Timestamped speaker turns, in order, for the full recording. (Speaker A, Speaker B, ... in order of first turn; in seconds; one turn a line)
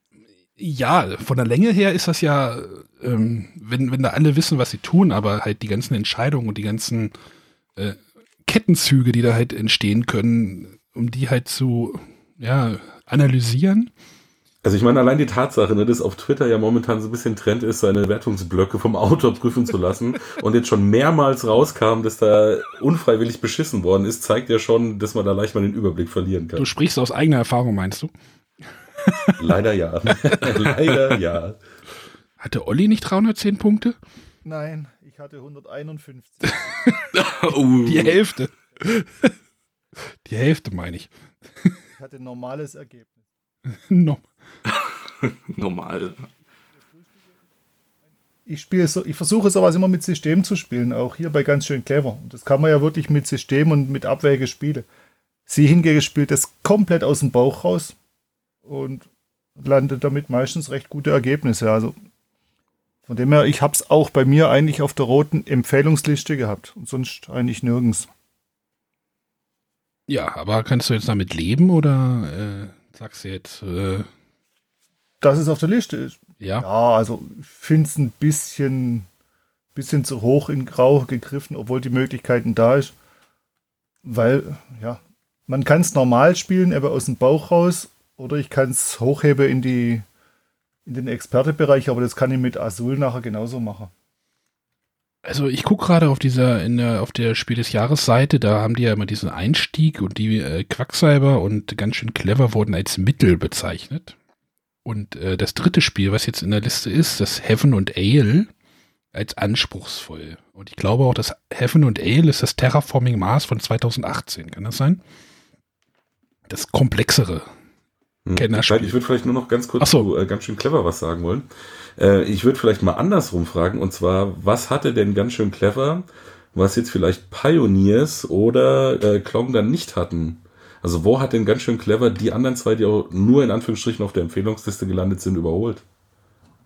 Speaker A: 0.6-7.1
Speaker A: 7.8-13.9
Speaker B: 14.6-26.7
Speaker A: 26.6-28.1
Speaker A: 29.0-29.4
Speaker B: 29.4-31.6
Speaker A: 32.4-34.0
Speaker C: 34.4-36.6
Speaker A: 36.5-37.1
Speaker D: 37.1-38.1
Speaker A: 37.8-39.3
Speaker A: 40.2-41.1
Speaker C: 42.0-43.2
Speaker A: 43.7-44.2
Speaker D: 44.6-46.3
Speaker C: 48.5-54.9
Speaker C: 55.5-58.0
Speaker C: 58.6-59.1
Speaker C: 59.6-61.9
Speaker C: 63.1-68.1
Speaker A: 70.1-74.1
Speaker C: 75.2-79.1
Speaker A: 76.4-76.7
Speaker C: 79.7-82.9
Speaker C: 84.0-90.0
Speaker C: 90.8-93.9
Speaker A: 95.2-104.2
Speaker A: 104.8-108.5
Speaker A: 109.1-115.0
Speaker A: 116.5-117.5
Speaker B: 118.2-135.8
Speaker A: 118.3-119.0
Speaker A: 119.8-120.1